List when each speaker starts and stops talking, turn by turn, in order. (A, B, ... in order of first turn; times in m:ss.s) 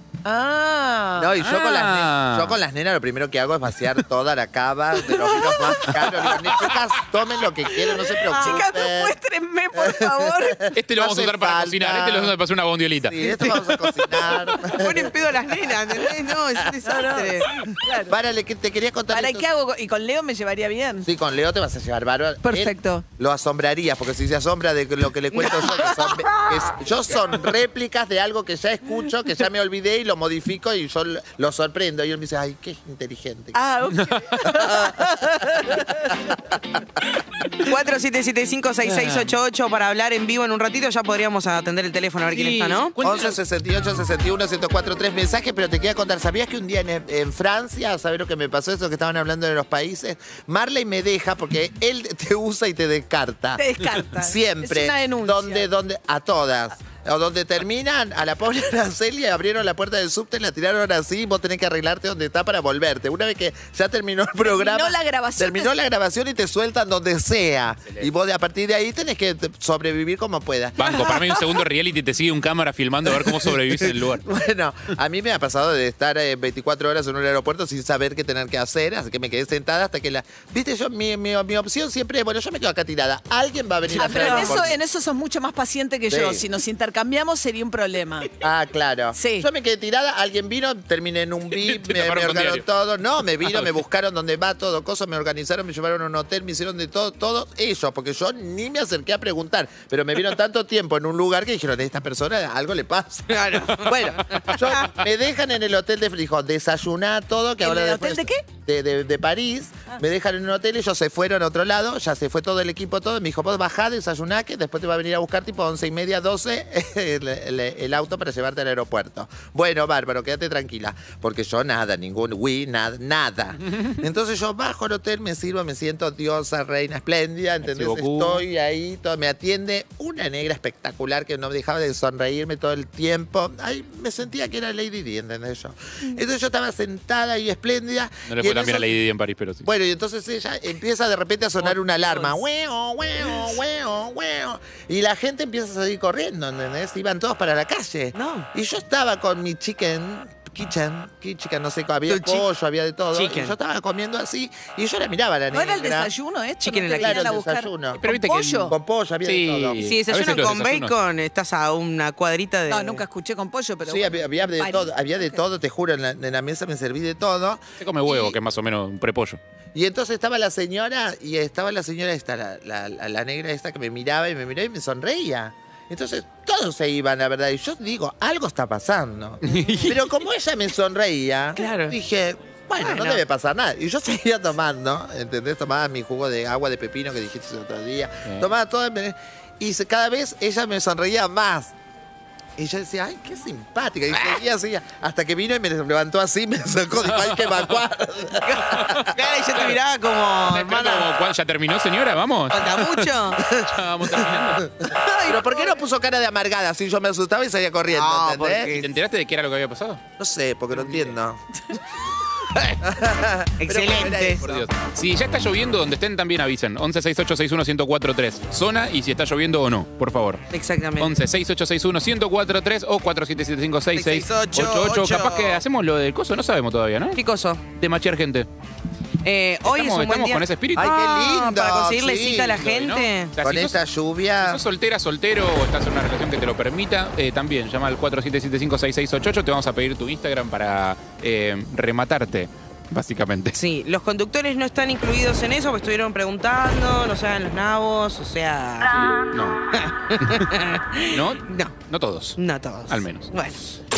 0:00.2-0:01.3 A
0:01.2-0:09.2 B
0:01.4-0:02.6 C
0:05.1-0:06.4 A
0:07.8-0:10.6 A
0:08.3-0:08.6 D
0:09.7-0:12.3 B
0:10.7-0:13.6 C
0:13.0-0:15.3 B
0:13.2-0:13.6 A
0:14.6-0:17.5 D
0:16.8-0:18.2 A
0:17.9-0:19.5 B
0:19.1-0:21.1 A
0:21.0-0:33.6 B
0:22.4-0:23.0 A
0:25.4-0:26.7 A
0:33.5-0:36.1 A
0:34.3-0:36.4 B
0:37.6-0:42.9 D
0:42.3-0:43.3 C
0:43.0-1:11.0 B
0:53.6-0:55.7 A
1:04.4-1:05.7 A
1:10.8-1:14.2 C
1:13.1-1:24.8 B
1:23.9-1:28.3 A
1:26.1-1:26.4 B
1:28.4-2:19.0 B
1:29.1-1:29.5 A
1:31.5-1:32.6 C
1:33.5-1:33.7 C
1:43.3-1:44.8 D
1:47.6-1:48.4 A
2:07.6-2:08.4 C
2:18.3-2:19.6 C
2:19.6-2:36.1 B
2:21.6-2:22.4 D
2:28.1-2:28.5 D
2:32.1-2:32.4 D
2:33.1-2:33.6 D
2:35.5-2:38.7 A
2:36.6-2:37.2 D
2:37.0-2:38.0 B
2:38.0-2:40.9 C
2:38.7-2:39.8 B
2:39.8-2:43.0 D
2:42.7-2:45.4 A
2:43.8-2:48.4 B
2:47.8-2:49.4 C
2:49.7-3:11.7 B
2:59.4-3:00.0 C
3:01.6-3:01.9 D
3:02.8-3:03.2 D
3:12.6-3:19.2 B
3:17.2-3:17.7 C
3:18.4-3:21.1 D
3:18.7-3:19.8 C
3:20.5-3:24.7 C
3:22.5-3:23.4 D
3:23.4-3:28.8 B
3:24.9-3:25.8 D
3:27.9-3:28.9 D
3:28.7-3:30.0 C
3:30.2-3:31.8 B
3:30.8-3:31.1 C
3:32.8-3:34.7 B
3:33.6-3:34.4 D
3:34.4-3:40.4 C
3:40.5-3:41.1 D
3:41.0-3:47.2 C
3:43.9-3:45.6 D
3:47.1-3:47.6 D
3:47.7-3:48.5 C
3:49.2-3:53.3 D
3:49.7-3:50.9 C
3:50.8-3:52.6 B
3:52.6-3:53.7 C
3:53.4-3:54.6 B
3:54.4-4:03.6 C
4:03.5-4:09.0 D
4:08.9-4:09.6 C
4:09.7-4:11.7 D
4:10.2-4:10.5 C
4:11.1-4:12.4 C
4:12.4-4:13.8 D
4:12.9-4:13.3 C